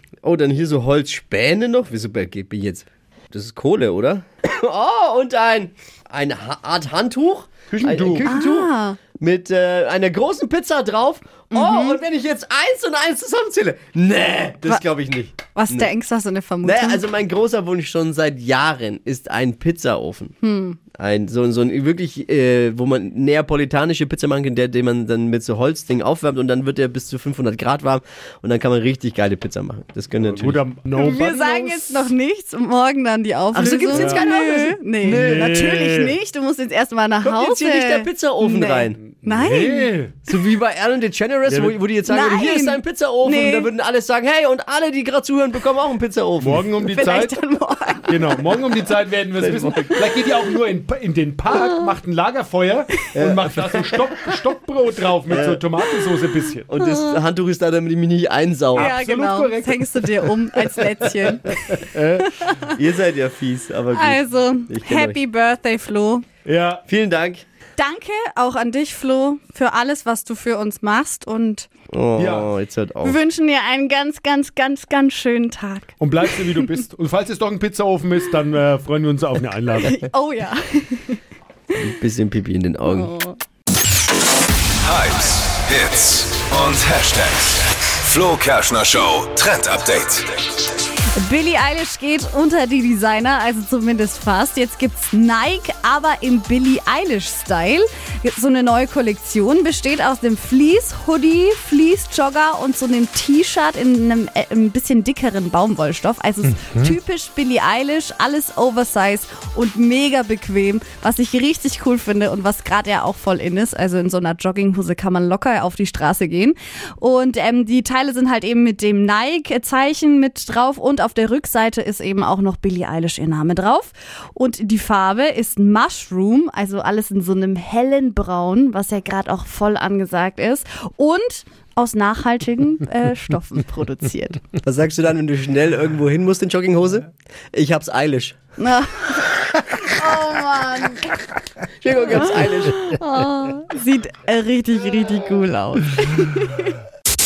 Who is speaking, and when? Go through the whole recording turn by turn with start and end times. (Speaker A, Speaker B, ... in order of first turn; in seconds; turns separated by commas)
Speaker A: 0.2-15.9, Speaker B: 7.7-8.3, Speaker C: 8.2-9.0, Speaker C: 11.5-12.0, Speaker C: 15.6-17.1, Speaker A: 16.6-20.4, Speaker C: 20.4-20.8, Speaker A: 20.9-32.1, Speaker B: 30.1-31.2, Speaker C: 30.9-39.9, Speaker A: 33.5-34.8, Speaker B: 33.9-34.2, Speaker B: 35.0-36.2, Speaker A: 37.2-39.0, Speaker B: 39.0-40.1, Speaker A: 40.3-46.6, Speaker B: 41.5-41.8, Speaker C: 42.1-43.7, Speaker B: 46.4-47.3, Speaker C: 46.9-48.3, Speaker B: 48.1-56.7, Speaker A: 49.4-49.7, Speaker A: 53.1-53.6, Speaker A: 55.3-55.6, Speaker A: 56.7-58.9, Speaker C: 56.8-57.1, Speaker B: 58.8-60.5, Speaker C: 58.8-61.8, Speaker B: 61.7-62.5, Speaker A: 62.8-65.2, Speaker C: 63.9-66.2, Speaker B: 66.5-66.8, Speaker A: 66.9-67.4, Speaker C: 67.8-71.7, Speaker A: 71.9-73.2, Speaker B: 72.2-72.5, Speaker C: 73.0-76.0, Speaker B: 76.0-80.0, Speaker C: 79.8-81.2, Speaker A: 81.8-83.1, Speaker C: 82.9-83.4, Speaker D: 84.8-90.3, Speaker C: 91.2-134.4, Speaker B: 106.5-107.0, Speaker A: 134.6-138.4, Speaker C: 138.6-141.1, Speaker A: 141.8-142.8, Speaker C: 142.8-146.7